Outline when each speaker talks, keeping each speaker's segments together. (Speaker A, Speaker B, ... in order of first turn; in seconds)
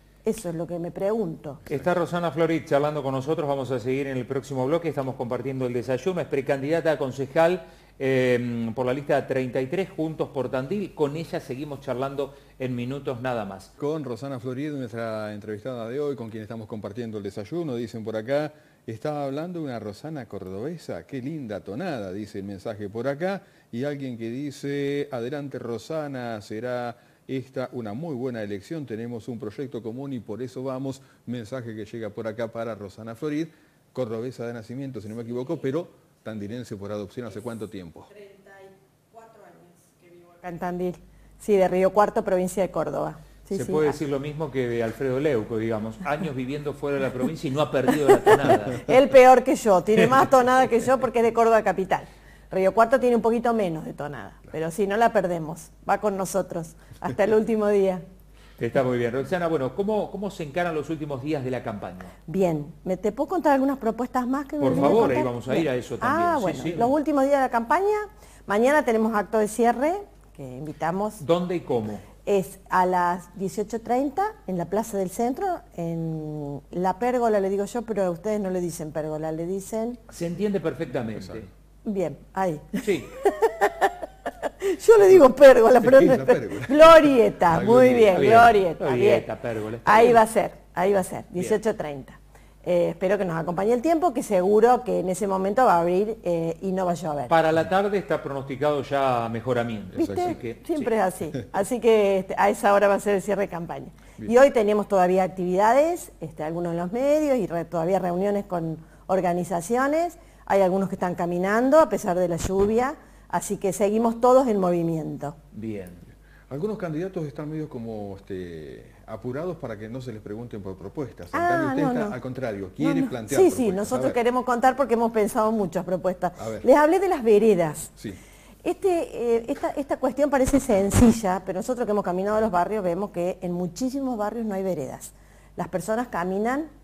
Speaker A: 0.2-1.6, 40.3-44.0, 48.8-58.0, 62.3-71.2, 72.2-80.0, 81.8-89.3, 89.8-97.3, 100.0-115.4, 121.3-122.2, 122.8-127.9, 128.6-136.7
Speaker B: 1.7-13.7, 43.5-49.0, 58.6-62.1, 64.6-66.9, 71.2-72.1, 80.1-81.5, 82.8-83.1, 88.1-90.2, 97.3-100.9, 115.5-116.0
Speaker C: 13.8-38.1, 85.8-88.3, 99.9-100.4, 116.5-124.2, 126.4-126.7